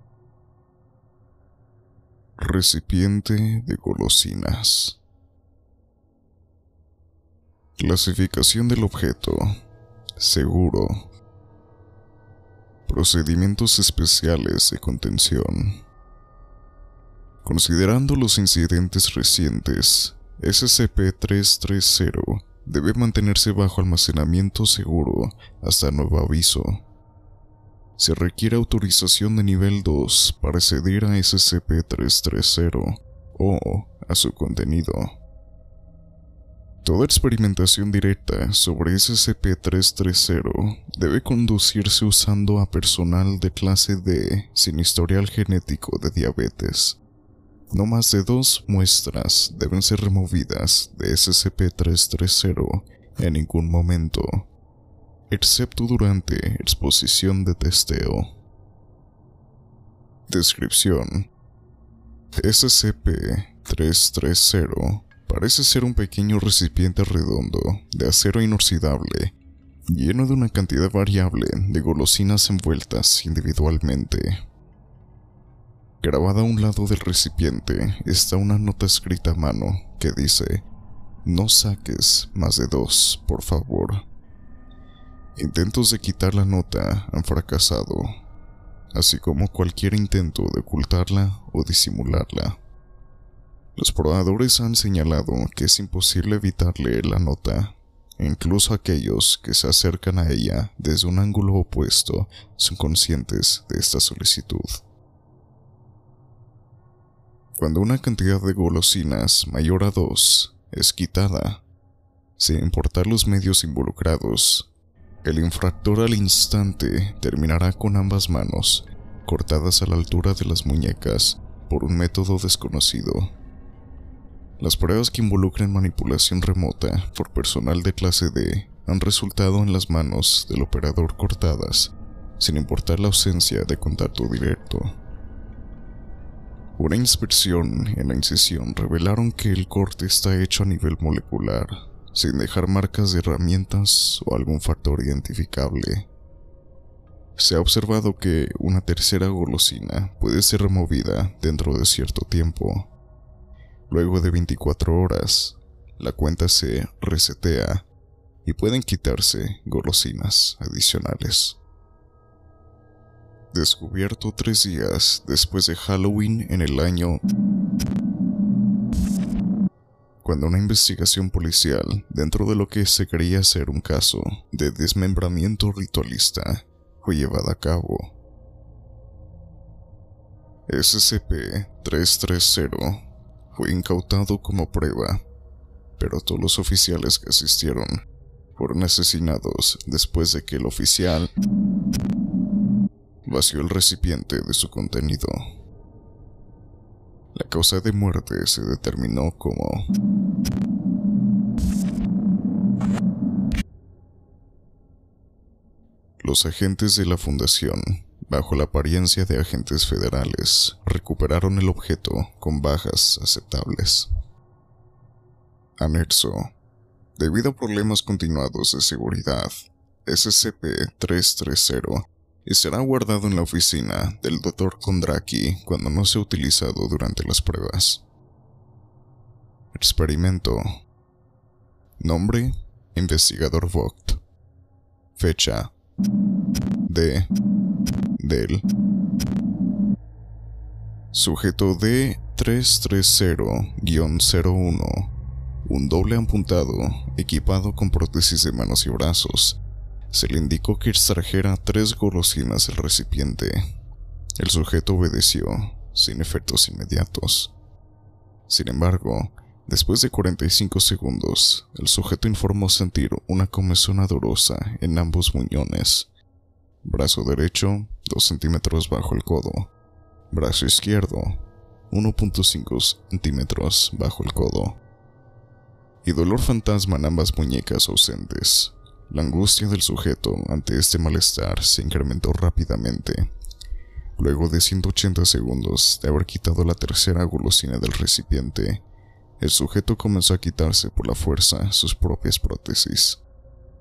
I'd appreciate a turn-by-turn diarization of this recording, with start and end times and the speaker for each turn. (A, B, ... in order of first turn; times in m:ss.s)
0:02.4-0:05.0 A
0:07.8-0:09.5 A
0:10.2-0:11.1 A
0:12.9-0:15.8 A
0:17.4-0:26.8 A
0:28.0-0:35.1 A
0:36.8-0:47.0 A
0:47.7-0:54.5 A
0:55.3-0:58.3 A
1:00.3-1:01.3 A
1:02.4-1:09.3 A
1:09.9-1:14.4 A
1:16.0-1:20.6 A
1:21.2-1:24.0 A
1:25.4-1:28.1 A
1:28.9-1:32.6 A
1:33.8-1:44.8 A
1:47.6-1:51.6 A
1:52.4-1:54.7 A
1:55.2-2:03.3 A
2:04.6-2:14.9 A
2:16.8-2:26.1 A
2:27.4-2:32.9 A
2:33.9-2:37.8 A
2:38.4-2:41.6 A
2:43.5-2:47.2 A
2:50.2-2:58.1 A
3:00.7-3:05.2 A
3:06.0-3:08.0 A
3:08.6-3:11.3 A
3:13.2-3:15.4 A
3:17.3-3:19.8 A
3:26.2-3:34.1 A
3:35.8-3:36.5 A
3:37.2-3:39.5 A
3:40.0-3:48.0 A
3:49.7-3:50.6 A
3:52.0-3:54.2 A
3:55.2-3:55.7 A
3:56.9-3:57.3 A
3:58.2-3:58.6 A
4:01.1-4:05.1 A
4:05.6-4:09.6 A
4:10.1-4:13.6 A
4:14.4-4:17.5 A
4:18.5-4:26.1 A
4:26.8-4:29.7 A
4:30.3-4:31.4 A
4:31.9-4:34.8 A
4:36.0-4:43.3 A
4:44.2-4:48.8 A
4:49.4-4:53.2 A